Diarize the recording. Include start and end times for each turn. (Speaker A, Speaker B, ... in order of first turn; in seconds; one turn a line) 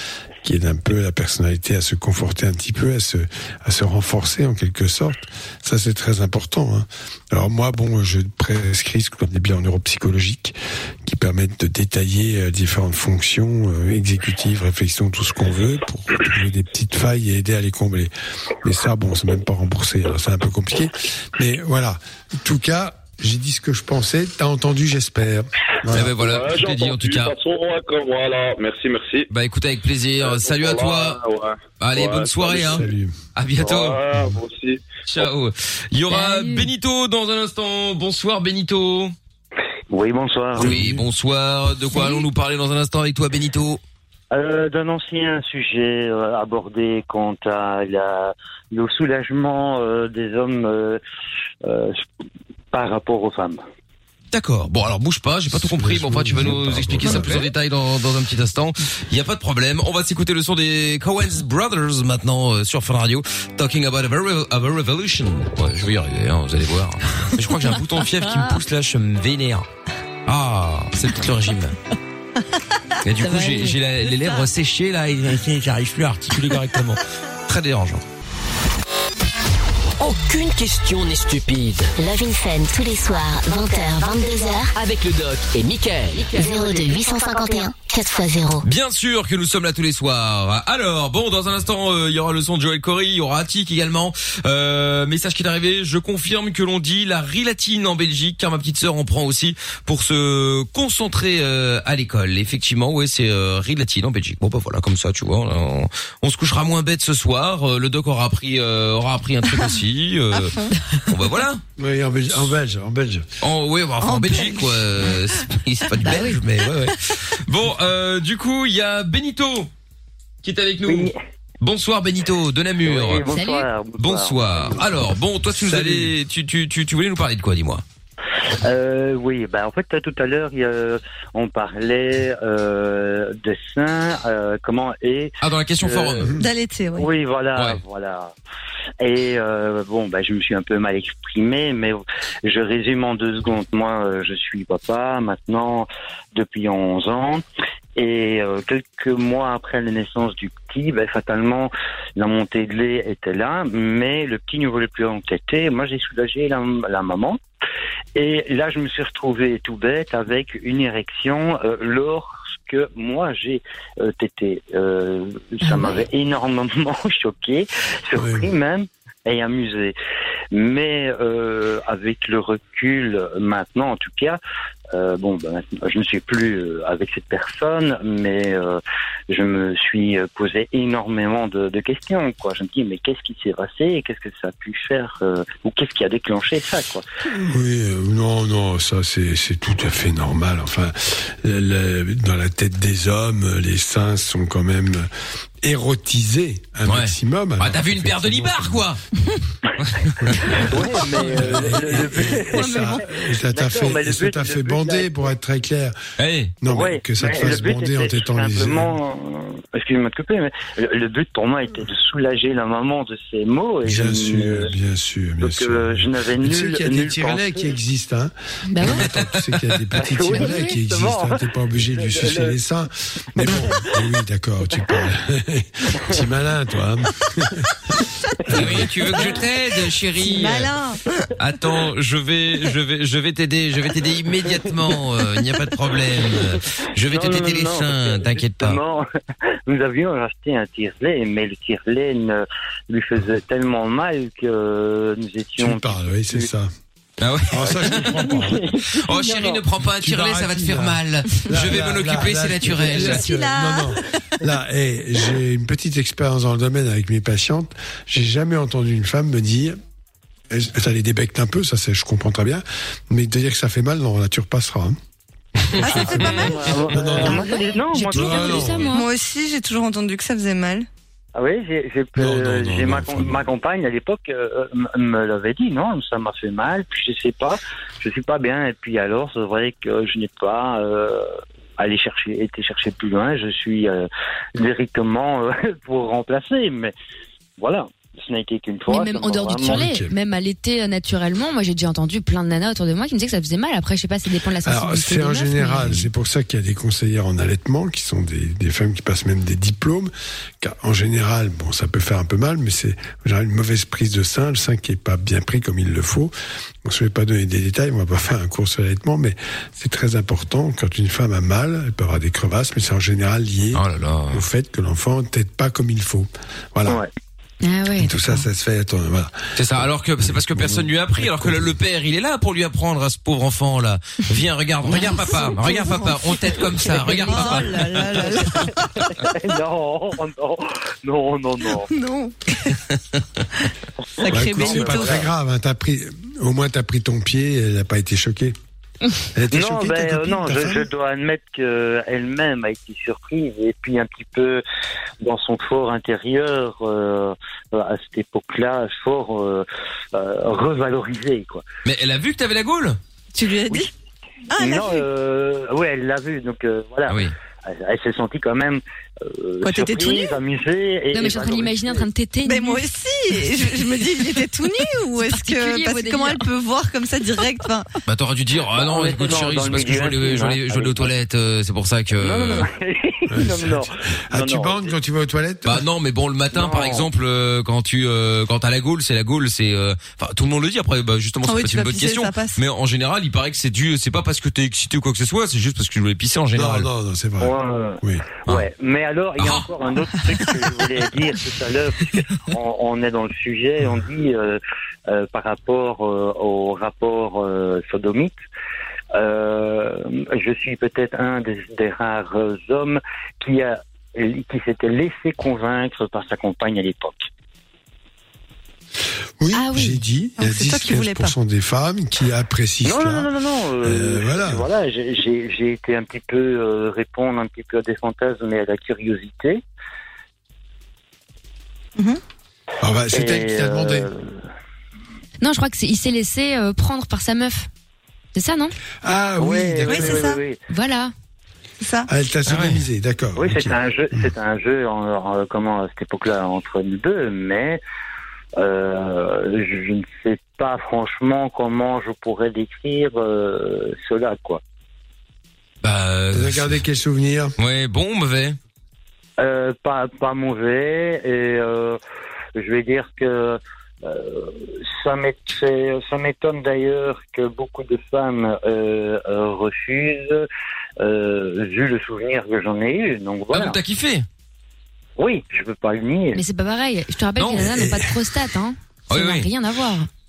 Speaker A: 0.4-18.1
Speaker A: 18.6-26.1
Speaker B: 25.9-27.4
Speaker C: 26.0-29.3
Speaker B: 29.3-31.2
Speaker C: 30.2-32.9
Speaker B: 31.8-32.9
Speaker A: 32.6-33.1
Speaker B: 33.4-34.0
Speaker C: 33.6-35.3
Speaker B: 35.1-39.1
Speaker D: 36.1-36.7
Speaker E: 39.9-40.7
Speaker B: 40.6-43.8
Speaker A: 40.6-41.0
Speaker E: 44.3-51.0
Speaker E: 51.6-52.1
Speaker E: 52.7-53.6
Speaker B: 54.3-69.7
Speaker A: 55.5-57.5
Speaker B: 70.3-71.8
Speaker B: 73.0-78.0
Speaker F: 73.2-74.5
Speaker G: 80.0-81.9
Speaker H: 82.0-84.7
Speaker G: 84.8-86.3
Speaker H: 86.3-88.7
Speaker B: 88.6-111.6
Speaker F: 110.3-110.8
Speaker A: 111.8-113.3
Speaker B: 113.4-119.7
Speaker F: 114.0-115.4
Speaker D: 116.0-116.4
Speaker B: 120.4-123.3
Speaker E: 120.8-121.1
Speaker E: 122.8-125.0
Speaker D: 123.2-123.7
Speaker B: 124.0-127.8
Speaker A: 125.6-126.1
Speaker E: 128.6-136.3
Speaker B: 135.4-136.4
Speaker F: 136.4-137.1
Speaker E: 136.9-138.3
Speaker B: 137.6-137.8
Speaker E: 139.0-147.4
Speaker E: 148.0-157.4
Speaker E: 158.2-169.9
Speaker D: 165.6-166.1
Speaker A: 168.1-168.5
Speaker E: 170.5-174.4
Speaker E: 174.9-187.1
Speaker A: 187.3-195.1
Speaker A: 195.6-198.9
Speaker B: 196.9-199.0
Speaker B: 199.8-200.7
Speaker A: 200.2-206.0
Speaker E: 200.7-203.0
Speaker F: 201.2-201.9
Speaker F: 202.5-203.1
Speaker E: 203.5-205.3
Speaker B: 206.2-206.6
Speaker A: 206.6-209.0
Speaker E: 206.7-214.7
Speaker A: 213.8-227.8
Speaker E: 215.4-217.7
Speaker D: 218.7-219.1
Speaker B: 219.1-219.8
Speaker E: 220.0-222.6
Speaker D: 220.3-220.8
Speaker E: 223.4-223.8
Speaker A: 228.5-229.1
Speaker B: 228.5-230.7
Speaker E: 228.8-229.4
Speaker F: 230.3-231.3
Speaker B: 231.4-238.8
Speaker E: 234.6-235.0
Speaker E: 236.5-239.1
Speaker E: 239.7-246.5
Speaker A: 245.6-246.7
Speaker B: 247.2-253.2
Speaker A: 247.5-248.6
Speaker E: 248.2-249.6
Speaker A: 250.0-259.8
Speaker F: 252.8-254.4
Speaker A: 260.5-265.0
Speaker B: 265.7-266.2
Speaker F: 265.8-267.5
Speaker A: 265.9-267.5
Speaker E: 266.0-268.8
Speaker D: 267.5-269.1
Speaker A: 268.1-268.9
Speaker F: 268.1-270.9
Speaker E: 271.4-281.3
Speaker B: 272.2-273.4
Speaker E: 281.8-286.9
Speaker E: 287.6-289.8
Speaker D: 288.9-296.1
Speaker A: 289.7-290.1
Speaker A: 294.6-317.0
Speaker B: 313.7-314.4
Speaker D: 317.6-318.5
Speaker A: 318.0-321.8
Speaker B: 319.6-327.9
Speaker F: 325.0-328.8
Speaker E: 327.2-327.5
Speaker E: 328.4-331.9
Speaker F: 331.8-332.8
Speaker F: 334.2-335.3
Speaker E: 334.3-335.2
Speaker A: 334.3-338.6
Speaker A: 339.3-340.9
Speaker E: 339.5-344.6
Speaker E: 345.2-351.6
Speaker B: 351.9-353.0
Speaker F: 353.4-353.9
Speaker F: 354.5-355.1
Speaker E: 354.6-362.1
Speaker B: 357.1-357.4
Speaker F: 359.6-360.4
Speaker D: 361.1-363.9
Speaker F: 362.4-367.9
Speaker D: 365.3-366.5
Speaker B: 368.1-372.7
Speaker E: 368.7-371.1
Speaker E: 372.1-374.9
Speaker A: 373.3-375.8
Speaker B: 375.6-386.9
Speaker E: 376.5-377.1
Speaker F: 381.4-382.6
Speaker A: 386.6-388.2
Speaker E: 387.4-398.4
Speaker B: 389.4-389.7
Speaker E: 399.1-407.3
Speaker A: 409.4-413.3
Speaker D: 409.5-410.0
Speaker F: 409.8-411.3
Speaker E: 412.8-419.6
Speaker A: 413.8-414.7
Speaker A: 422.8-424.1
Speaker E: 423.1-424.4
Speaker D: 425.4-427.7
Speaker D: 428.3-428.8
Speaker A: 429.0-430.3
Speaker E: 429.4-430.6
Speaker F: 429.8-430.4
Speaker D: 430.7-431.1
Speaker F: 431.8-432.1
Speaker A: 432.1-434.3
Speaker B: 432.5-432.8
Speaker E: 433.4-437.8
Speaker E: 438.6-444.6
Speaker B: 445.8-446.8
Speaker A: 446.3-447.6
Speaker B: 447.6-448.6
Speaker E: 449.4-452.0
Speaker E: 452.6-460.5
Speaker E: 461.0-463.8
Speaker B: 463.5-464.3
Speaker E: 465.2-466.4
Speaker D: 466.3-470.1
Speaker B: 467.4-467.7
Speaker A: 467.6-468.2
Speaker B: 469.1-469.5